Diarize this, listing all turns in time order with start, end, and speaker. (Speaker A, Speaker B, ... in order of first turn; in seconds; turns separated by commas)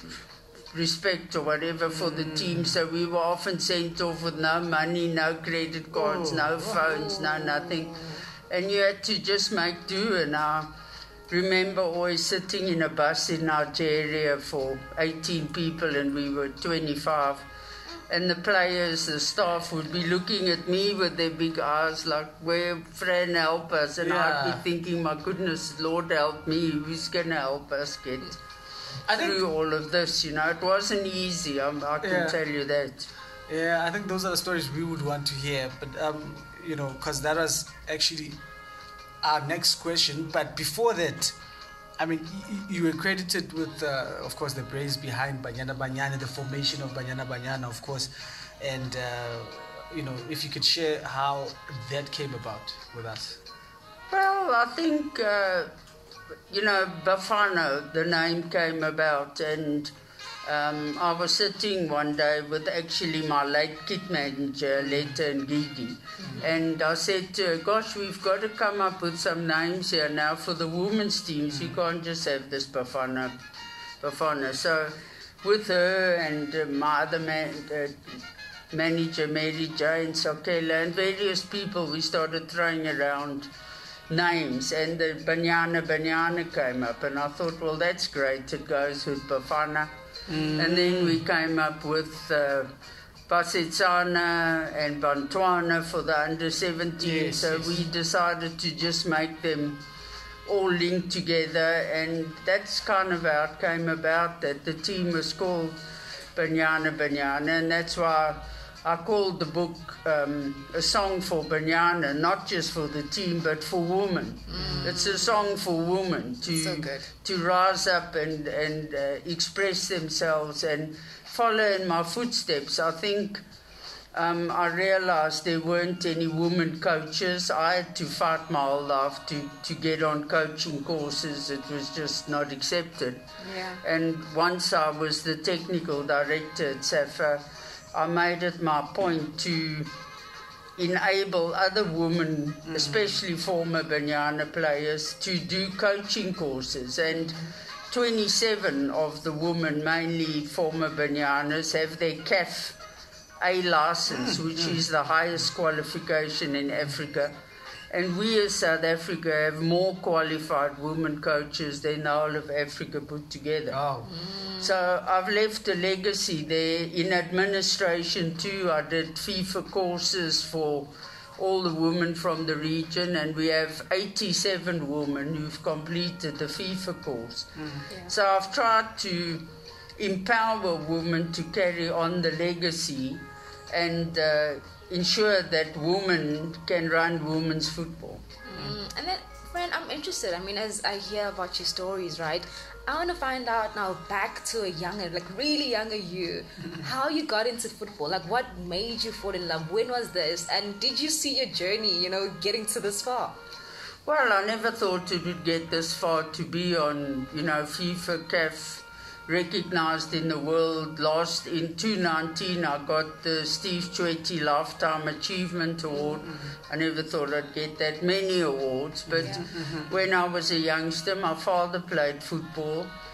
Speaker A: 0.7-7.9, Speaker B: 1.9-2.8, Speaker B: 5.9-6.8, Speaker C: 6.8-8.1, Speaker A: 8.5-10.7, Speaker A: 11.3-17.5, Speaker A: 18.1-28.4, Speaker B: 24.0-24.6, Speaker B: 29.1-29.4, Speaker A: 29.1-33.1, Speaker B: 32.0-32.4, Speaker B: 33.5-38.4, Speaker B: 39.2-41.3, Speaker B: 42.0-48.1, Speaker B: 48.6-53.4, Speaker A: 54.1-55.7, Speaker A: 56.5-59.9, Speaker A: 60.4-73.3, Speaker B: 64.8-65.2, Speaker C: 66.2-66.5, Speaker B: 71.5-71.8, Speaker A: 74.0-78.2, Speaker A: 78.7-83.5, Speaker A: 84.1-89.9, Speaker B: 90.3-91.2, Speaker A: 90.5-92.7, Speaker A: 93.3-99.8, Speaker B: 97.0-97.8, Speaker A: 100.5-105.8, Speaker A: 106.3-123.4, Speaker C: 114.5-115.5, Speaker B: 114.5-114.9, Speaker C: 116.5-117.1, Speaker A: 124.1-133.2, Speaker C: 133.4-133.8, Speaker A: 133.8-139.9, Speaker A: 140.8-152.8, Speaker B: 142.7-143.1, Speaker C: 147.1-147.5, Speaker A: 153.4-157.3, Speaker B: 154.1-154.8, Speaker A: 157.9-163.8, Speaker B: 163.7-164.1, Speaker C: 164.0-164.8, Speaker A: 164.6-177.5, Speaker B: 177.6-177.9, Speaker A: 178.1-179.4, Speaker A: 180.0-188.2, Speaker C: 188.4-203.4, Speaker A: 204.1-222.9, Speaker B: 216.2-216.5, Speaker B: 219.1-219.9